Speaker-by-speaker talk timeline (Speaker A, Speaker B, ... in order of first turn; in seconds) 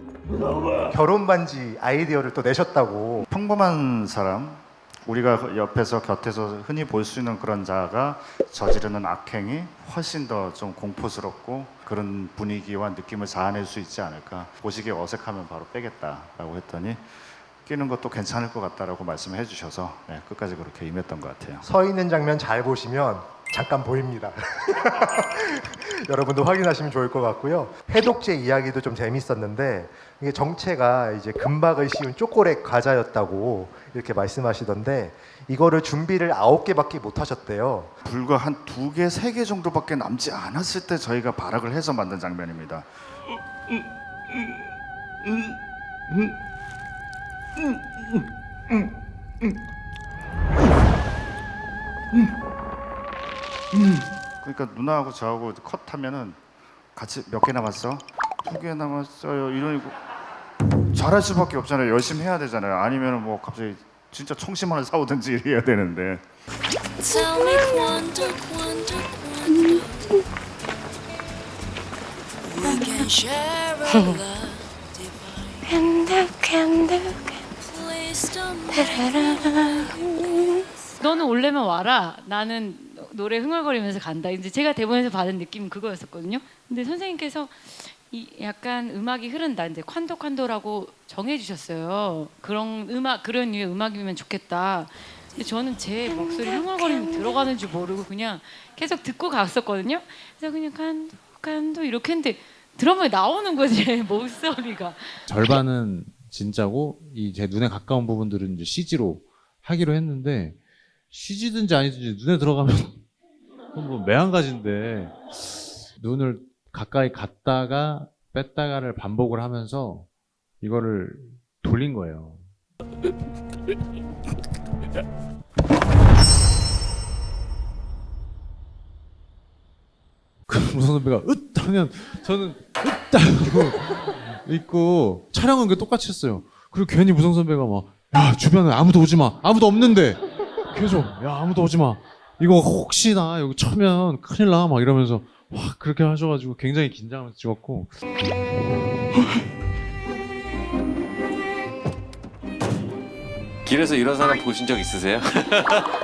Speaker A: 0.9-3.3, 21.6-38.0
Speaker B: 3.3-17.0, 17.6-21.6, 38.0-42.9, 54.4-56.4, 57.0-59.9, 60.9-66.2
Speaker C: 67.0-70.1, 72.5-80.5
Speaker D: 81.0-105.2
Speaker E: 105.3-110.6, 111.1-113.0, 113.7-120.1, 120.6-122.4, 130.5-147.9
Speaker F: 153.7-155.8